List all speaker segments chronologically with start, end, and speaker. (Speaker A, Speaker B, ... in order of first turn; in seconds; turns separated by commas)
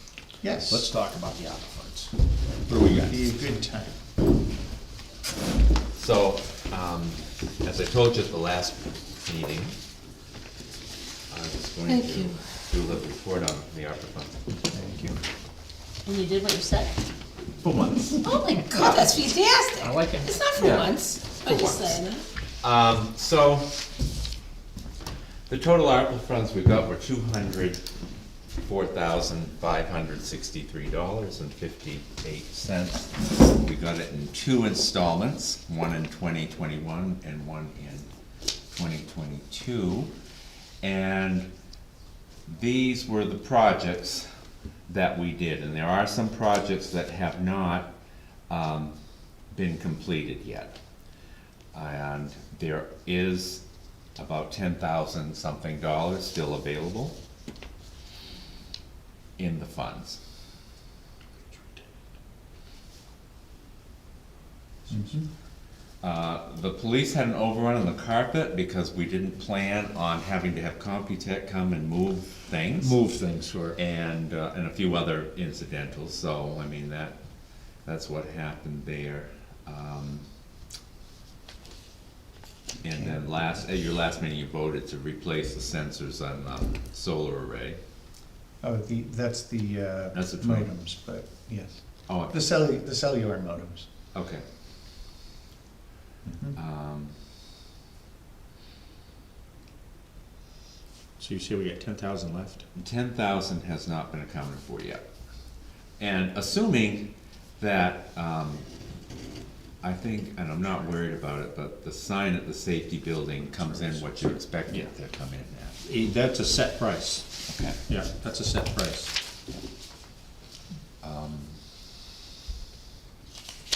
Speaker A: 0.4-0.9, Speaker B: 0.7-2.1, Speaker B: 2.7-3.3, Speaker A: 2.7-4.0, Speaker C: 6.0-9.8, Speaker C: 11.3-14.4, Speaker D: 11.9-12.4, Speaker A: 14.7-15.2, Speaker D: 16.0-16.9, Speaker C: 17.6-19.1, Speaker D: 18.2-22.2, Speaker C: 19.8-22.0, Speaker C: 22.6-23.7, Speaker C: 25.5-27.8, Speaker C: 28.6-38.1, Speaker C: 38.7-40.1, Speaker C: 40.8-41.5, Speaker C: 42.5-44.2, Speaker C: 44.9-47.9, Speaker C: 48.5-48.9, Speaker C: 49.5-50.8, Speaker C: 51.7-53.6, Speaker C: 54.2-57.1, Speaker C: 59.4-60.2, Speaker A: 64.9-65.2, Speaker C: 66.0-73.0, Speaker B: 72.8-73.8, Speaker C: 73.8-77.2, Speaker C: 77.8-80.2, Speaker C: 82.8-87.8, Speaker A: 88.6-93.9, Speaker C: 90.1-90.7, Speaker C: 92.1-92.3, Speaker C: 94.1-94.4, Speaker A: 96.2-96.6, Speaker C: 96.5-97.1, Speaker B: 101.2-102.6, Speaker C: 102.8-105.0, Speaker C: 106.0-108.7, Speaker C: 109.8-115.8, Speaker B: 115.8-119.1, Speaker C: 117.5-117.8, Speaker C: 121.0-121.6